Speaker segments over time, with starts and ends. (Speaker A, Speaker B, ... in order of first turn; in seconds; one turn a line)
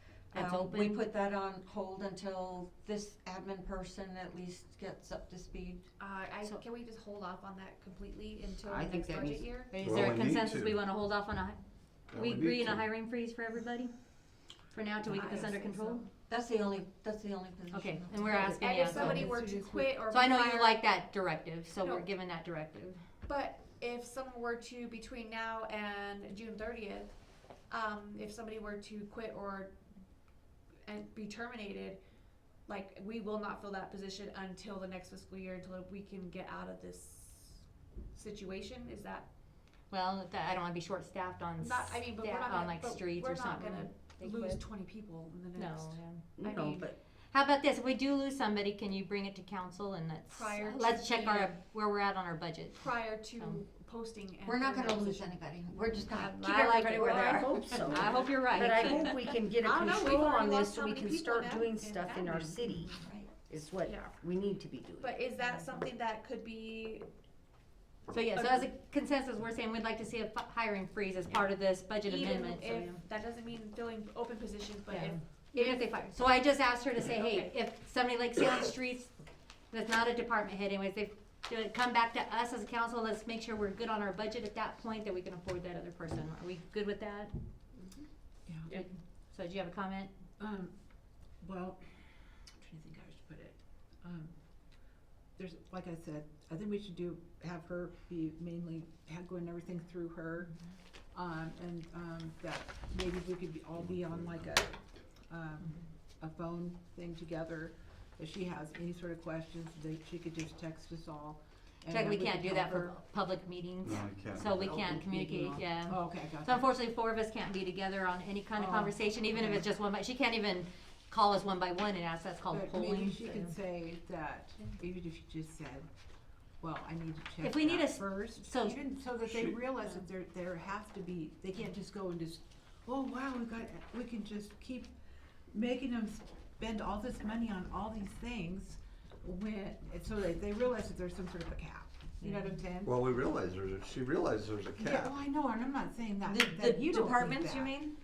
Speaker A: 0.3-1.0
Speaker B: 0.3-5.9
Speaker C: 6.0-9.7
Speaker D: 8.7-9.6
Speaker A: 9.7-11.6
Speaker E: 9.8-10.8
Speaker E: 12.1-12.9
Speaker A: 12.1-13.9
Speaker A: 14.7-16.1
Speaker C: 15.1-16.1
Speaker B: 16.3-18.6
Speaker A: 17.7-19.3
Speaker C: 18.5-20.8
Speaker F: 19.0-20.0
Speaker A: 20.1-23.0
Speaker C: 21.8-22.1
Speaker C: 23.3-27.1
Speaker C: 27.7-29.8
Speaker C: 30.9-32.0
Speaker C: 32.7-37.6
Speaker C: 38.1-39.3
Speaker A: 39.9-44.6
Speaker C: 41.6-46.9
Speaker A: 45.6-46.2
Speaker D: 46.4-47.0
Speaker A: 47.3-53.6
Speaker C: 50.3-51.6
Speaker C: 52.8-55.4
Speaker B: 54.5-58.3
Speaker C: 56.1-58.3
Speaker D: 56.8-65.1
Speaker A: 57.8-59.2
Speaker C: 58.8-62.9
Speaker B: 63.0-63.4
Speaker C: 63.8-64.2
Speaker C: 65.0-67.1
Speaker A: 68.1-73.0
Speaker C: 68.3-68.7
Speaker C: 72.0-75.9
Speaker A: 74.9-79.1
Speaker C: 77.1-77.5
Speaker A: 79.7-87.3
Speaker F: 88.5-88.8
Speaker A: 88.7-90.1
Speaker F: 90.4-90.7
Speaker F: 91.4-91.8
Speaker F: 92.6-94.3
Speaker F: 95.4-100.5
Speaker F: 101.1-113.0
Speaker E: 103.8-104.4
Speaker A: 111.9-123.5
Speaker E: 113.8-115.0
Speaker F: 115.0-116.7
Speaker F: 118.6-119.7
Speaker F: 122.5-125.9
Speaker F: 126.6-134.9
Speaker A: 127.4-128.8
Speaker F: 135.5-143.0
Speaker E: 142.8-145.2
Speaker F: 144.8-147.8
Speaker B: 146.2-147.9